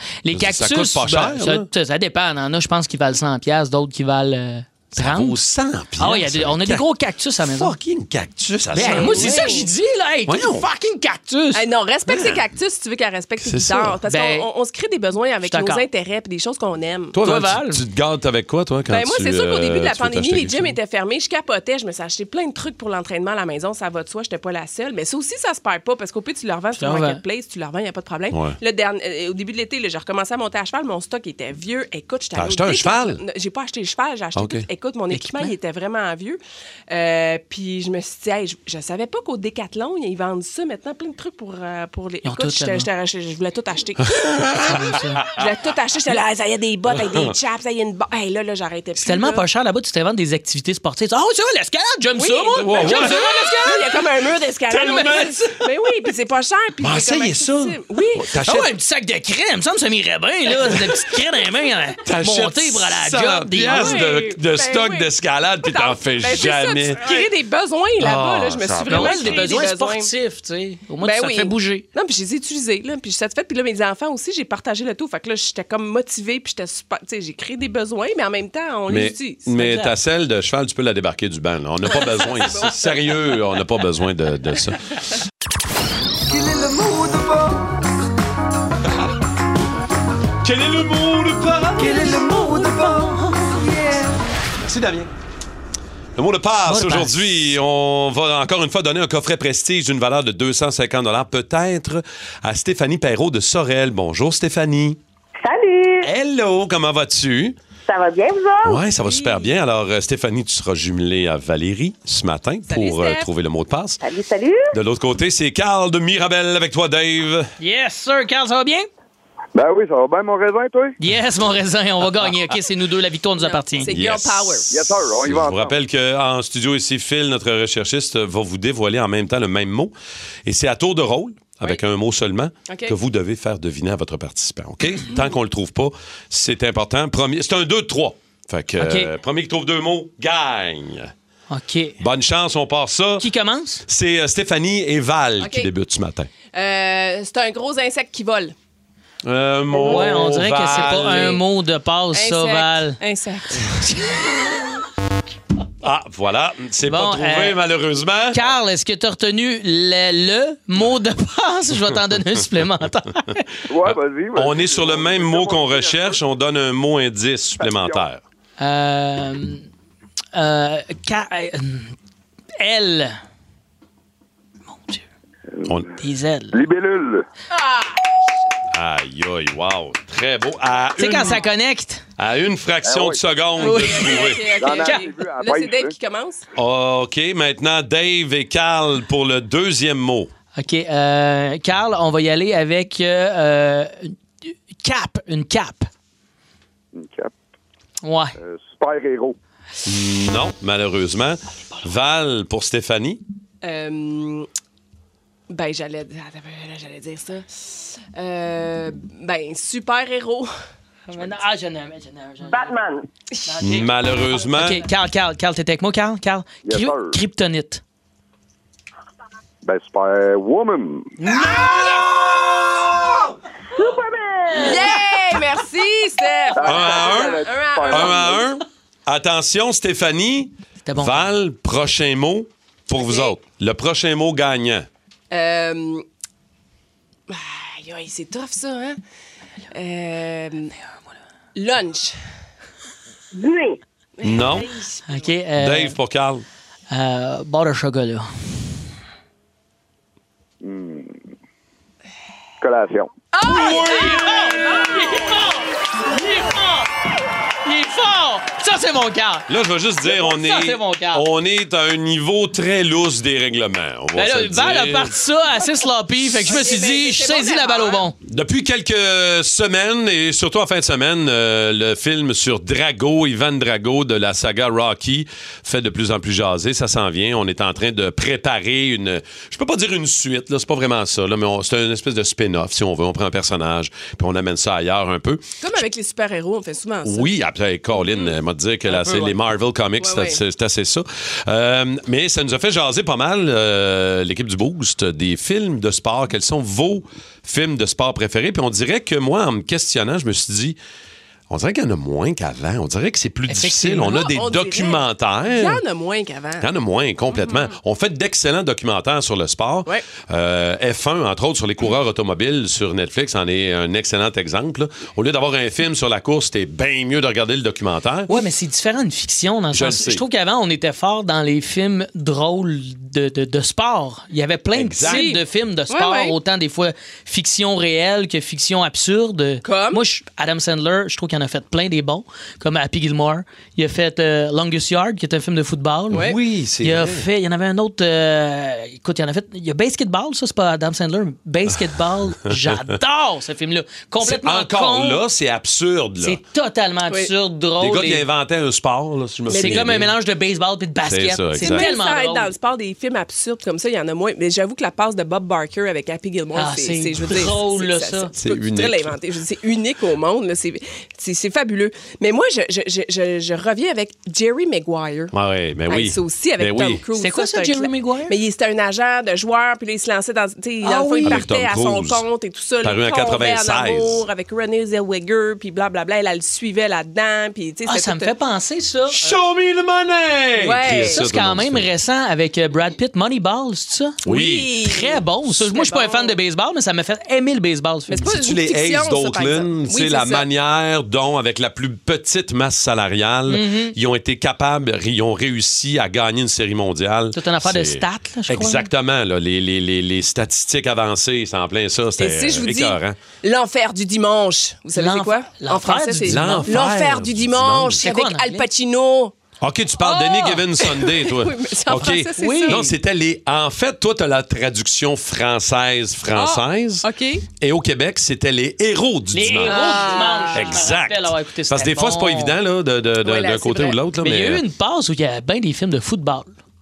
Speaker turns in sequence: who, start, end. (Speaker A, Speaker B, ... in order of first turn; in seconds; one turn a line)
Speaker A: 0.2-5.4
Speaker B: 0.3-1.7
Speaker B: 5.0-6.9
Speaker A: 6.0-7.8
Speaker B: 7.4-9.6
Speaker A: 8.7-11.7
Speaker C: 8.8-9.7
Speaker B: 10.3-10.7
Speaker C: 11.5-17.2
Speaker B: 12.1-12.5
Speaker B: 13.4-14.0
Speaker A: 14.1-14.5
Speaker A: 15.5-15.8
Speaker B: 17.1-20.8
Speaker A: 17.2-17.8
Speaker C: 18.9-49.4
Speaker A: 26.8-27.2
Speaker B: 28.3-28.6
Speaker B: 32.4-33.2
Speaker B: 34.4-34.7
Speaker A: 35.1-35.5
Speaker A: 42.2-42.9
Speaker B: 44.2-44.8
Speaker A: 44.7-45.3
Speaker B: 47.0-47.3
Speaker A: 49.0-53.9
Speaker C: 52.2-58.3
Speaker B: 52.6-53.3
Speaker B: 54.7-55.4
Speaker B: 56.8-58.7
Speaker A: 58.4-64.0
Speaker B: 62.0-67.2
Speaker C: 63.7-65.1
Speaker C: 65.6-70.1
Speaker B: 68.0-69.6
Speaker A: 68.9-71.9
Speaker C: 71.0-79.8
Speaker B: 78.9-84.8
Speaker C: 82.3-83.0
Speaker B: 86.4-87.5
Speaker B: 90.4-93.2
Speaker A: 91.8-93.8
Speaker B: 94.6-95.1
Speaker B: 96.2-105.0
Speaker A: 96.6-97.5
Speaker D: 105.4-106.0
Speaker B: 106.0-107.6
Speaker D: 107.9-108.6
Speaker B: 108.6-114.0
Speaker C: 109.0-109.5
Speaker C: 112.7-113.3
Speaker D: 114.0-114.7
Speaker B: 114.7-117.5
Speaker A: 117.6-118.9
Speaker E: 119.5-121.0
Speaker A: 121.0-123.9
Speaker C: 123.4-124.7
Speaker B: 123.8-129.9
Speaker E: 124.7-125.8
Speaker B: 130.4-141.1
Speaker C: 132.7-132.9
Speaker A: 138.8-139.1
Speaker A: 141.5-142.0
Speaker B: 142.0-143.3
Speaker A: 143.2-143.8
Speaker B: 143.9-146.3
Speaker C: 145.4-145.7
Speaker C: 146.5-148.6
Speaker B: 149.2-151.4
Speaker A: 149.8-153.0
Speaker C: 152.1-153.9
Speaker A: 153.8-154.6
Speaker B: 155.8-158.5
Speaker A: 156.9-157.6
Speaker A: 158.3-163.4
Speaker E: 163.7-166.2
Speaker B: 163.8-168.2
Speaker E: 167.6-168.1
Speaker A: 168.6-169.7
Speaker A: 170.3-171.9
Speaker A: 172.6-173.2
Speaker A: 176.0-176.6
Speaker E: 176.5-177.2
Speaker C: 177.5-178.2
Speaker B: 178.7-181.4
Speaker A: 181.0-182.0
Speaker B: 182.2-184.6
Speaker E: 182.8-183.2
Speaker A: 183.6-185.0
Speaker C: 183.6-186.4
Speaker E: 184.6-185.9
Speaker B: 186.6-190.3
Speaker A: 190.6-195.9
Speaker E: 196.9-197.3
Speaker A: 198.0-198.3
Speaker E: 198.4-199.3
Speaker B: 199.8-203.2
Speaker C: 203.6-204.5
Speaker C: 205.5-210.5
Speaker A: 211.1-212.8
Speaker A: 213.5-217.8
Speaker B: 213.6-214.9
Speaker E: 216.7-217.2
Speaker E: 219.6-221.4
Speaker C: 224.5-228.4
Speaker E: 226.6-228.4
Speaker B: 226.6-234.9
Speaker A: 230.8-231.3
Speaker C: 232.9-233.3
Speaker C: 235.3-236.1
Speaker C: 237.3-239.0
Speaker C: 239.7-240.7
Speaker C: 241.6-242.2
Speaker C: 244.2-245.3
Speaker B: 244.2-244.7
Speaker A: 245.1-246.0
Speaker B: 245.6-246.4
Speaker A: 246.9-248.3
Speaker E: 250.6-251.2
Speaker E: 252.6-253.1
Speaker C: 253.3-254.3
Speaker B: 253.4-255.1
Speaker A: 253.5-256.9
Speaker A: 257.6-259.5
Speaker B: 259.5-265.2
Speaker A: 260.0-261.3
Speaker A: 264.1-268.2
Speaker C: 266.4-268.1
Speaker B: 268.3-285.4
Speaker C: 285.6-287.3
Speaker B: 287.0-300.8
Speaker C: 290.0-290.4
Speaker B: 301.5-305.8
Speaker A: 303.5-304.2
Speaker C: 304.0-306.7
Speaker B: 306.6-318.3
Speaker A: 318.3-345.2
Speaker B: 319.7-320.2
Speaker B: 324.7-325.3
Speaker C: 325.1-326.4
Speaker C: 329.6-330.0
Speaker B: 336.1-337.3
Speaker B: 344.2-346.4
Speaker A: 346.2-348.2
Speaker B: 347.8-350.1
Speaker C: 349.5-349.9
Speaker A: 349.5-352.5
Speaker B: 351.1-351.9
Speaker C: 351.6-365.3
Speaker A: 356.6-358.3
Speaker B: 358.4-359.1
Speaker B: 365.3-367.0
Speaker C: 365.9-378.3
Speaker A: 367.2-368.4
Speaker A: 370.8-371.4
Speaker B: 371.2-372.2
Speaker B: 372.8-374.2
Speaker A: 377.9-379.4
Speaker B: 379.1-381.9
Speaker C: 380.6-381.2
Speaker A: 381.1-384.2
Speaker B: 384.2-384.8
Speaker C: 384.2-386.4
Speaker A: 384.8-388.3
Speaker C: 388.1-390.5
Speaker B: 388.2-403.2
Speaker A: 393.5-393.9
Speaker A: 397.3-398.9
Speaker C: 402.2-409.4
Speaker A: 404.9-406.8
Speaker B: 406.3-408.0
Speaker A: 408.0-408.7
Speaker B: 409.6-417.1
Speaker C: 410.0-412.9
Speaker A: 412.4-412.9
Speaker C: 416.3-417.4
Speaker B: 417.6-424.6
Speaker A: 419.3-422.6
Speaker C: 419.7-420.6
Speaker C: 423.2-424.0
Speaker A: 424.2-426.5